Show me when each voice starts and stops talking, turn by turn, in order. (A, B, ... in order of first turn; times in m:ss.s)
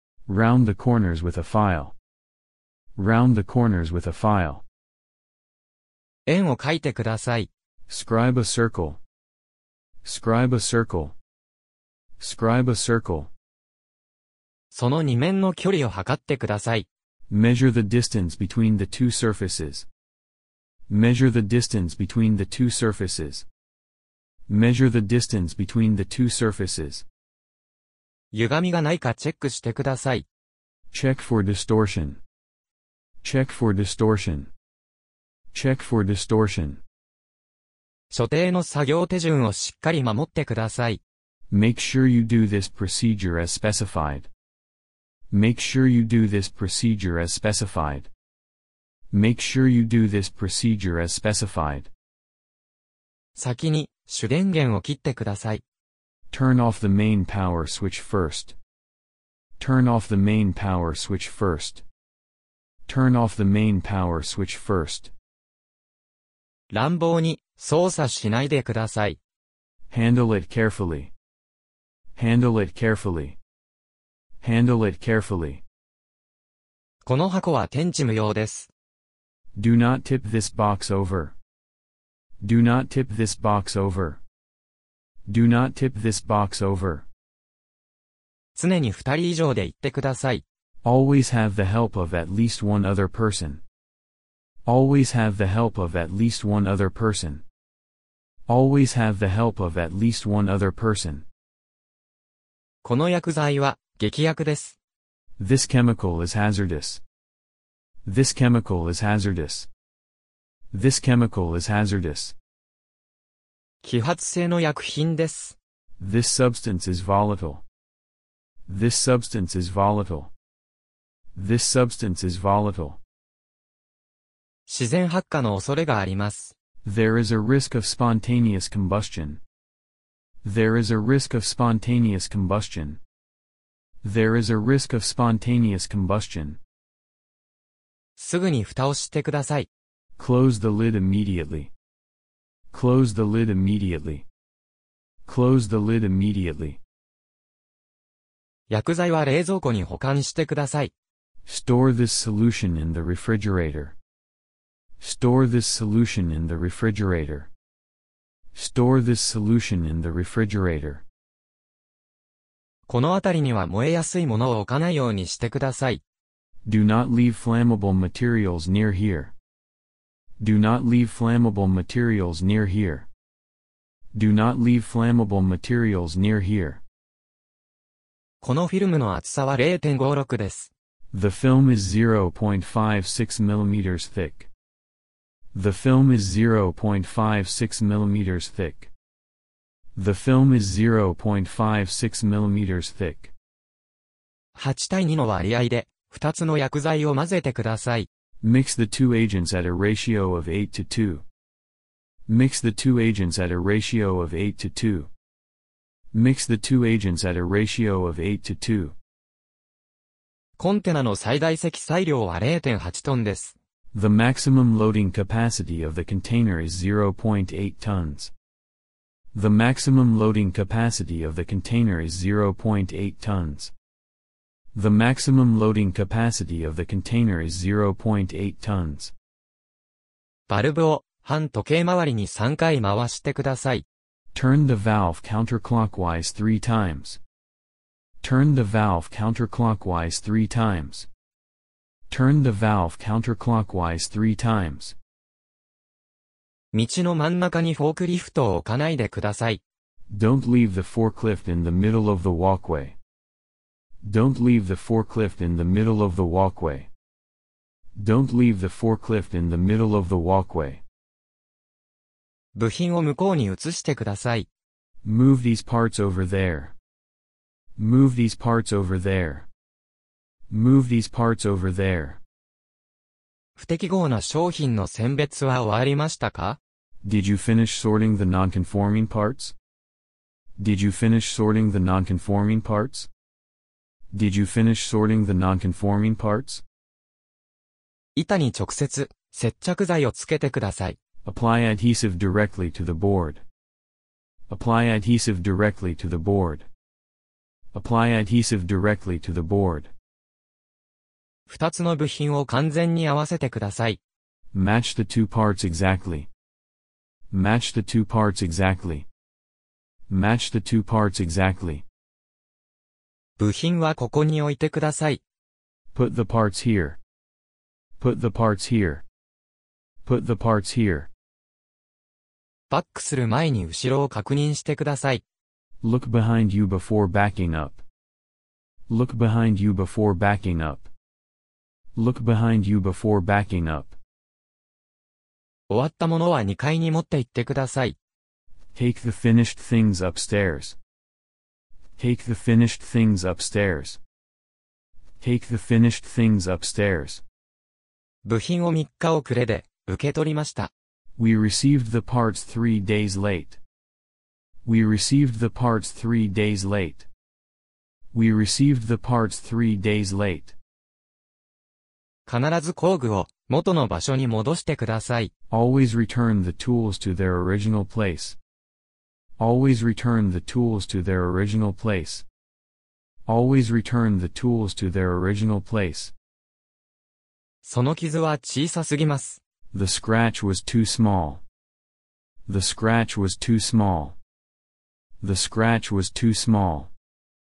0:00.3-0:02.0 A
0:03.0-0:04.6 A
0:06.2-0:07.5 B
0:07.9-0:09.0 A
0:10.0-0:11.2 A
0:12.2-0:13.3 A
0:14.7-0:16.9 B
0:17.3-0:19.9 A
0:20.9-0:23.4 A
0:24.5-0:27.0 A
0:28.3-0:30.2 B
0:30.9-0:32.2 A
0:33.2-0:34.5 A
0:35.5-0:36.8 A
0:38.1-0:41.0 B
0:41.5-0:44.3 A
0:45.3-0:48.1 A
0:49.1-0:51.9 A
0:53.4-0:55.6 B
0:56.3-0:58.6 A
0:59.6-1:01.8 A
1:02.9-1:05.1 A
1:06.7-1:09.2 B
1:09.9-1:11.1 A
1:12.2-1:13.4 A
1:14.4-1:15.6 A
1:17.0-1:18.7 B
1:19.5-1:21.3 A
1:22.4-1:24.2 A
1:25.3-1:27.0 A
1:28.5-1:30.4 B
1:30.8-1:33.6 A
1:34.6-1:37.4 A
1:38.5-1:41.2 A
1:42.8-1:44.8 B
1:45.4-1:47.0 A
1:48.0-1:49.7 A
1:50.7-1:52.3 A
1:53.8-1:55.6 B
1:56.0-1:57.6 A
1:58.7-2:00.3 A
2:01.3-2:03.0 A
2:04.7-2:06.5 B
2:06.8-2:09.4 A
2:10.4-2:13.0 A
2:14.0-2:16.6 A
2:18.2-2:19.7 B
2:20.2-2:21.7 A
2:22.7-2:24.3 A
2:25.3-2:26.8 A
2:28.7-2:30.9 B
2:31.4-2:34.0 A
2:35.0-2:37.5 A
2:38.5-2:41.0 A
2:42.9-2:46.0 B
2:46.6-2:49.3 A
2:50.4-2:53.1 A
2:54.1-2:56.8 A
2:58.4-3:00.7 B
3:01.1-3:04.5 A
3:05.5-3:08.9 A
3:10.0-3:13.3 A
3:14.5-3:18.1 B
3:18.4-3:21.2 A
3:22.3-3:25.1 A
3:26.1-3:28.9 A
3:30.6-3:33.5 B
3:33.9-3:38.3 A
3:39.3-3:43.7 A
3:44.7-3:49.1 A
3:50.5-3:53.8 B
3:54.3-3:57.2 A
3:58.2-4:01.1 A
4:02.1-4:05.0 A
4:06.7-4:09.6 B
4:10.1-4:13.0 A
4:14.0-4:16.9 A
4:18.0-4:20.8 A
4:22.5-4:24.5 B
4:25.0-4:26.7 A
4:27.8-4:29.5 A
4:30.5-4:32.2 A
4:33.6-4:36.6 B
4:37.0-4:39.5 A
4:40.6-4:43.1 A
4:44.1-4:46.6 A
4:48.2-4:51.0 B
4:51.2-4:53.4 A
4:54.5-4:56.7 A
4:57.7-4:59.9 A
5:01.5-5:04.0 B
5:04.5-5:06.3 A
5:07.3-5:09.1 A
5:10.1-5:11.8 A
5:13.4-5:15.2 B
5:15.9-5:17.0 A
5:18.0-5:19.0 A
5:20.0-5:21.1 A
5:22.7-5:25.2 B
5:25.8-5:27.8 A
5:28.9-5:30.9 A
5:31.9-5:34.0 A
5:35.7-5:38.0 B
5:38.7-5:40.8 A
5:42.0-5:44.0 A
5:45.2-5:47.2 A
5:48.2-5:50.7 B
5:51.2-5:53.6 A
5:54.6-5:57.1 A
5:58.1-6:00.5 A
6:02.2-6:05.3 B
6:05.5-6:08.4 A
6:09.4-6:12.2 A
6:13.3-6:16.1 A
6:17.6-6:19.4 B
6:19.7-6:21.4 A
6:22.5-6:24.2 A
6:25.2-6:26.9 A